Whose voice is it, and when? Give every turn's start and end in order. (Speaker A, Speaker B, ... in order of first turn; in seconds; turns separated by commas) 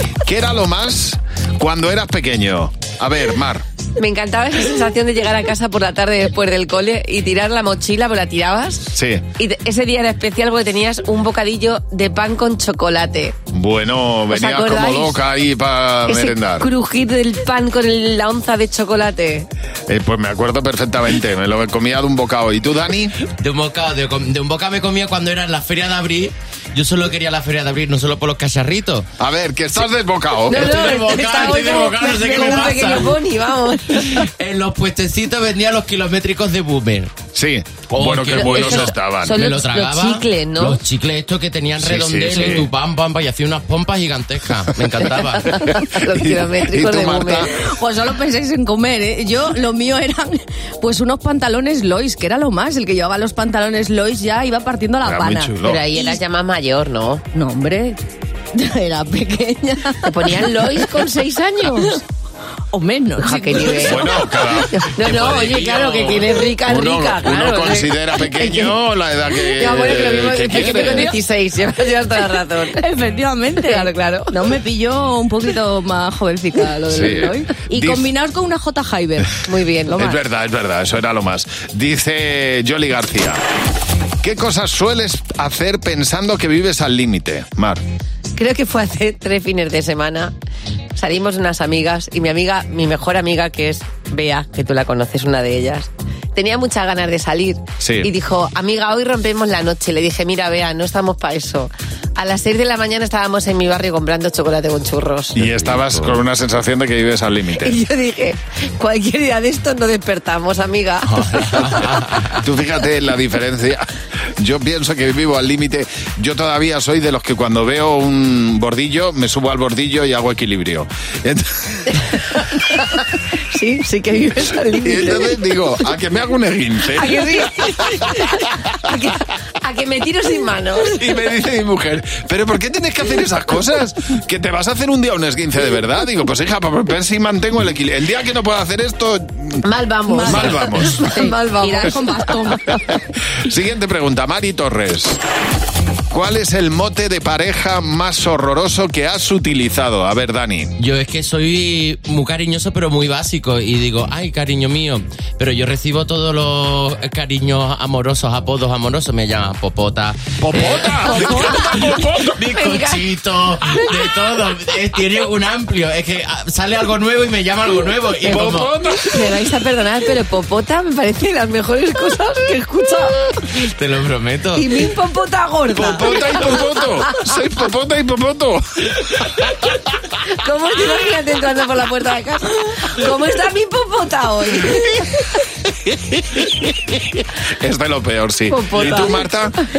Speaker A: 0.2-3.6, Speaker B: 4.0-13.3, Speaker A: 8.9-9.2, Speaker A: 13.5-16.7, Speaker B: 14.3-15.2, Speaker B: 16.1-19.5, Speaker A: 19.9-23.1, Speaker C: 23.3-29.1, Speaker A: 29.2-30.9, Speaker C: 30.5-33.2, Speaker B: 30.5-34.3, Speaker C: 33.9-37.1, Speaker A: 37.3-39.4, Speaker C: 37.9-45.6, Speaker B: 38.4-40.8, Speaker A: 41.8-42.7, Speaker B: 45.5-47.5, Speaker A: 45.5-47.5, Speaker D: 47.5-56.2, Speaker A: 55.0-55.9, Speaker B: 55.6-57.2, Speaker D: 57.3-58.0, Speaker D: 58.5-62.0, Speaker B: 60.0-62.0, Speaker D: 62.7-64.5, Speaker B: 63.2-68.6, Speaker A: 63.6-64.8, Speaker C: 64.9-66.5, Speaker A: 66.6-71.1, Speaker B: 69.5-72.8, Speaker D: 70.6-71.1, Speaker D: 72.8-80.2, Speaker B: 73.6-74.3, Speaker A: 76.9-78.1, Speaker B: 79.4-80.0, Speaker A: 79.9-83.4, Speaker A: 84.2-87.8, Speaker B: 88.4-90.3, Speaker B: 90.9-105.3, Speaker A: 97.8-98.1, Speaker C: 105.3-106.2, Speaker A: 105.3-107.8, Speaker B: 107.6-112.0, Speaker C: 111.1-112.4, Speaker A: 112.3-113.9, Speaker A: 114.4-122.0, Speaker B: 123.5-125.4, Speaker A: 124.8-127.7, Speaker B: 127.0-130.9, Speaker A: 130.9-139.6, Speaker B: 139.6-142.5, Speaker D: 140.1-143.1, Speaker A: 140.2-141.1, Speaker A: 143.3-145.2, Speaker A: 146.1-150.7, Speaker C: 150.8-168.7, Speaker A: 160.4-162.5, Speaker B: 161.5-161.8, Speaker B: 162.5-163.0, Speaker A: 168.2-169.4, Speaker B: 168.3-173.4, Speaker C: 173.5-174.9, Speaker B: 174.5-176.4, Speaker A: 175.7-179.6, Speaker B: 180.4-184.8, Speaker A: 185.9-189.5, Speaker B: 188.5-189.2